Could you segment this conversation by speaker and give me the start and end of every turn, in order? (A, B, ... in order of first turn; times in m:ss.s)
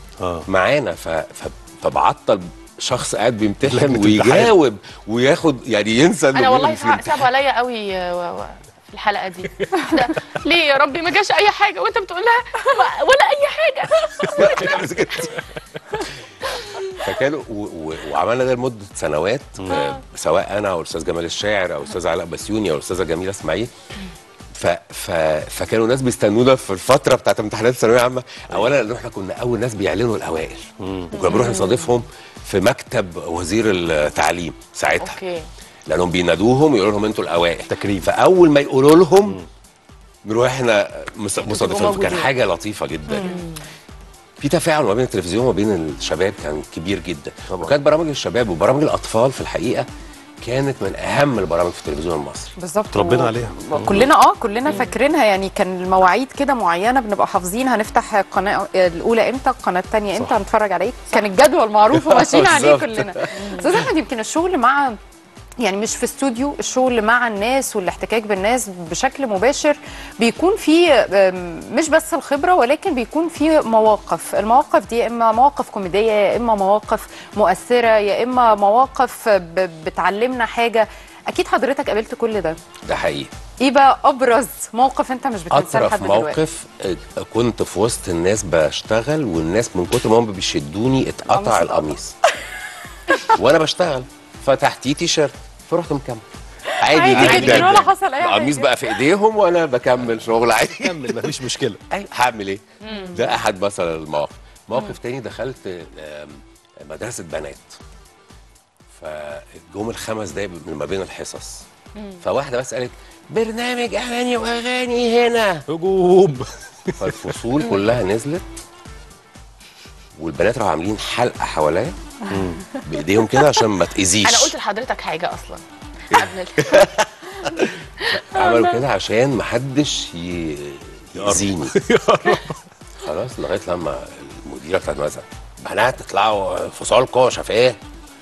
0:00.2-0:00.5 A
0:00.4-0:07.2 B
0:03.6-0:04.5 A
0:06.3-0:14.8 C
0:14.3-0:15.4 B
0:16.5-0:16.9 C
0:16.9-0:23.7 B
0:19.6-0:19.9 A
0:19.7-0:20.0 C
0:24.5-0:35.2 B
0:30.8-0:31.1 A
0:31.2-0:31.9 C
0:35.0-0:35.5 C
0:35.9-0:39.4 B
0:37.7-0:38.1 A
0:40.2-0:43.4 B
0:41.6-0:42.3 C
0:43.1-0:43.4 D
0:43.2-0:43.6 C
0:44.4-0:49.9 B
0:50.4-0:52.5 B
0:52.6-1:05.0 D
0:52.9-0:54.1 A
0:54.7-0:54.9 C
1:01.9-1:03.9 B
1:03.4-1:03.6 C
1:05.6-1:22.6 D
1:22.8-1:23.3 B
1:23.6-1:26.4 D
1:25.5-1:32.1 B
1:31.3-1:31.9 D
1:33.1-1:33.4 D
1:33.3-1:36.2 B
1:36.8-1:41.3 B
1:36.8-1:38.9 D
1:37.1-1:37.8 C
1:37.2-1:37.7 A
1:40.7-1:41.8 A
1:41.9-1:47.8 B
1:42.8-1:43.3 C
1:42.9-1:43.2 D
1:48.9-1:51.6 B
1:52.0-1:52.2 C
1:52.2-1:55.6 B
1:55.7-1:57.4 A
1:57.0-1:58.4 B
2:00.2-2:01.9 B
2:02.3-2:02.7 A
2:02.8-2:04.5 B
2:04.2-2:06.8 C
2:06.6-2:11.8 B
2:08.0-2:08.8 C
2:11.2-2:12.6 A
2:13.0-2:17.8 B